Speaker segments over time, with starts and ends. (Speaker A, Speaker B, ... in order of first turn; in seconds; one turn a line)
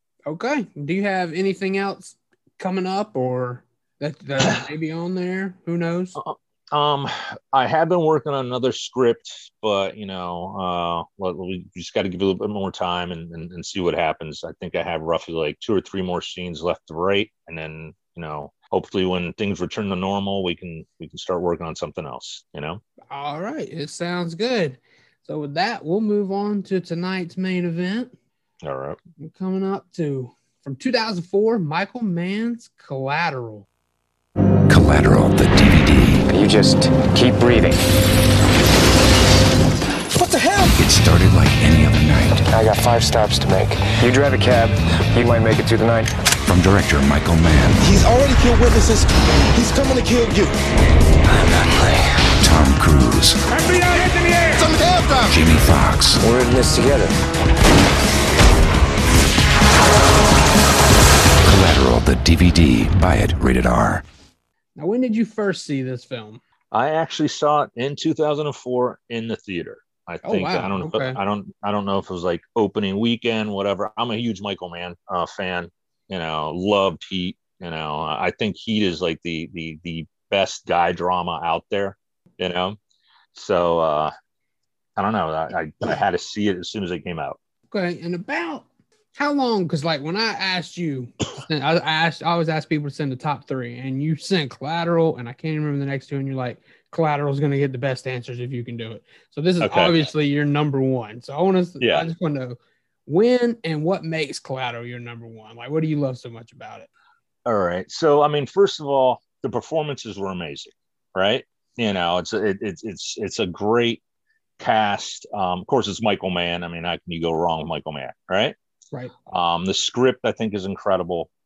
Speaker A: 0.2-6.2
Speaker B: 6.2-22.8
Speaker A: 23.1-28.1
Speaker B: 28.6-29.0
Speaker A: 29.2-33.7
Speaker C: 34.7-36.2
Speaker D: 36.3-37.8
Speaker E: 40.1-40.7
Speaker C: 40.8-42.4
Speaker D: 42.5-46.1
Speaker C: 46.5-47.9
Speaker E: 47.8-50.5
Speaker C: 51.2-53.4
Speaker A: 53.5-54.6
Speaker E: 54.5-55.4
Speaker C: 55.3-56.2
Speaker D: 56.2-57.1
Speaker C: 61.4-64.0
Speaker A: 64.8-66.4
Speaker B: 66.7-82.8
Speaker A: 70.2-71.2
Speaker B: 83.3-84.1
Speaker B: 85.0-87.4
Speaker A: 87.7-106.9
Speaker B: 99.6-100.0
Speaker B: 101.8-102.1
Speaker B: 107.5-114.0
Speaker B: 114.6-118.5
Speaker B: 119.3-121.3